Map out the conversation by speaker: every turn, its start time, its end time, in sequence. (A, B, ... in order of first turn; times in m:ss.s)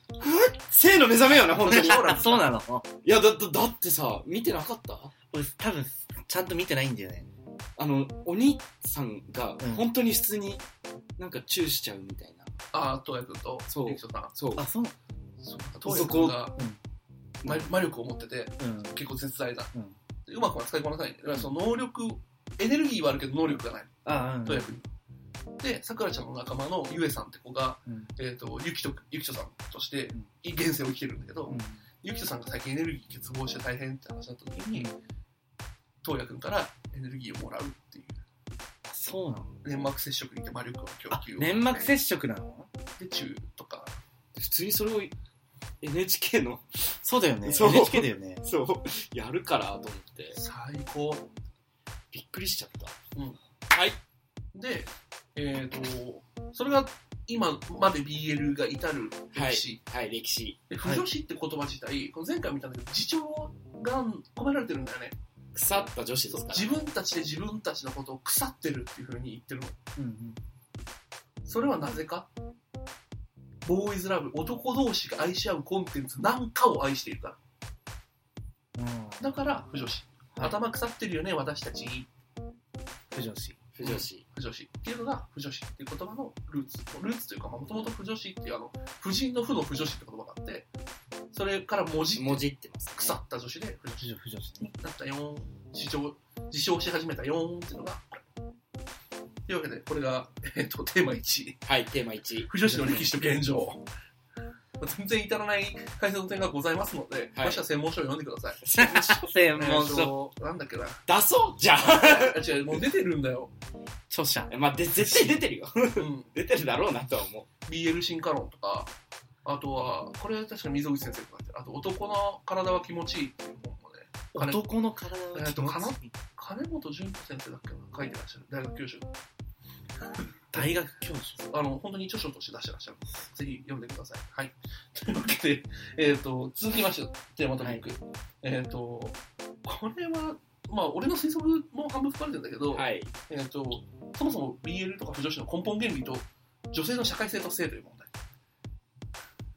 0:00.2-0:02.2 A
0:01.6-0:02.4 B
0:01.7-0:02.9 C
0:03.0-0:05.1 A
0:05.3-0:07.3 C
0:07.8-0:10.6 A
0:09.6-0:09.9 C
0:11.2-0:12.5 A
0:12.7-0:14.3 B
0:13.7-0:14.6 A
0:14.6-0:15.0 C
0:15.4-0:16.6 B
0:15.8-0:16.4 A
0:17.4-0:17.7 A
0:17.4-0:19.7 B
0:18.6-0:19.0 C
0:20.3-0:24.9 B
0:24.0-0:24.8 C
0:25.6-0:34.9 B
0:27.9-0:28.1 C
0:31.5-0:31.8 C
0:36.0-0:38.2 B
0:38.9-0:39.6 C
0:39.6-0:41.7 B
0:41.1-0:42.7 C
0:43.0-0:44.0 B
0:44.3-0:45.1 A
0:45.8-0:46.6 A
0:47.0-0:48.4 C
0:47.4-0:50.4 A
0:50.3-0:51.3 B
0:52.1-0:52.9 A
0:53.7-0:54.0 A
0:54.5-0:59.8 B
0:59.3-1:00.6 A
1:00.7-1:05.2 B
1:05.5-1:06.7 A
1:06.3-1:09.8 B
1:10.0-1:10.4 C
1:11.4-1:12.3 B
1:13.6-1:17.4 B
1:18.8-1:19.4 C
1:19.2-1:22.1 B
1:20.3-1:20.6 C
1:23.1-1:23.6 C
1:23.8-1:24.2 A
1:23.8-1:30.7 B
1:31.3-1:32.4 B
1:32.2-1:33.2 A
1:33.0-1:34.1 B
1:34.0-1:34.7 C
1:34.6-1:38.2 B
1:39.5-1:41.6 B
1:41.6-1:42.5 A
1:42.5-1:43.8 B
1:42.6-1:43.1 C
1:44.8-1:51.0 B
1:48.6-1:49.2 A
1:48.8-1:50.2 C
1:51.1-1:52.5 A
1:51.8-1:53.5 B
1:54.1-1:55.4 C
1:54.5-1:57.5 A
1:56.0-1:56.3 B
1:57.6-1:58.9 B
1:59.4-2:04.6 B
2:04.3-2:06.1 C
2:05.3-2:09.1 B
2:10.5-2:11.4 C
2:11.4-2:28.1 B
2:22.8-2:23.1 A